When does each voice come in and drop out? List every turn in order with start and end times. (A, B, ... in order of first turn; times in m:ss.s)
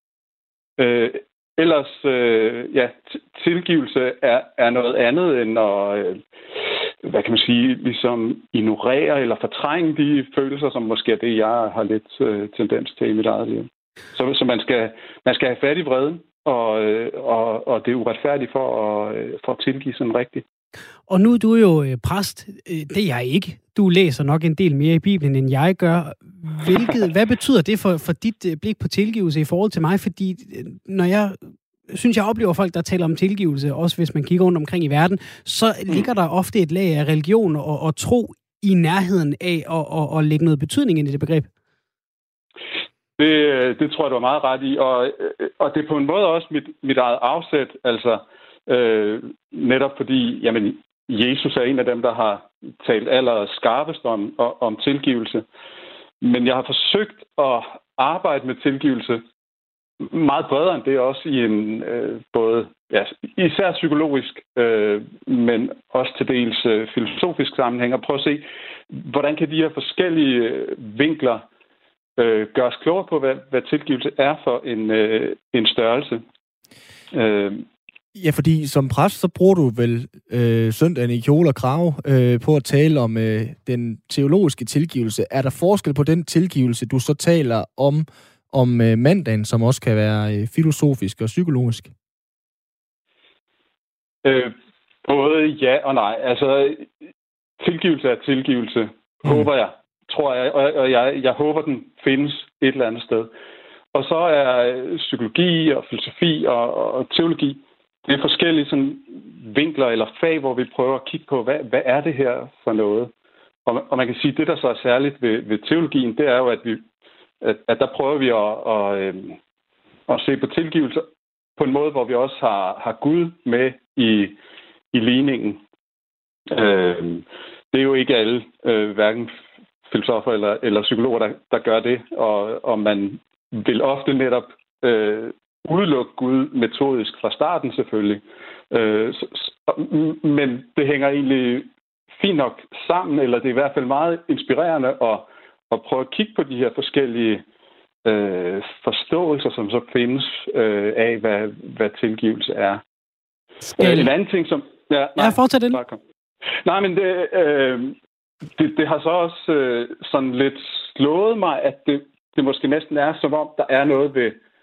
0:00.8-0:06.2 A
0:07.0-0:20.4 A
0:21.1-0:41.5 B
0:43.2-0:55.4 A
0:56.2-0:59.2 A
1:00.0-1:11.5 A
1:12.2-1:16.2 A
1:17.1-1:17.6 A
1:18.1-1:31.9 C
1:34.2-1:36.9 A
1:37.6-1:43.3 A
1:43.9-1:53.1 A
1:53.6-1:56.8 A
1:57.4-1:59.4 A
2:00.1-2:01.0 A
2:01.6-2:04.4 A
2:04.9-2:05.6 A
2:06.5-2:09.3 A
2:09.9-2:27.4 A
2:28.0-2:32.8 A
2:33.7-2:34.1 B
2:33.8-2:36.0 A
2:35.2-2:35.8 B
2:36.6-2:38.0 A
2:38.5-2:44.4 A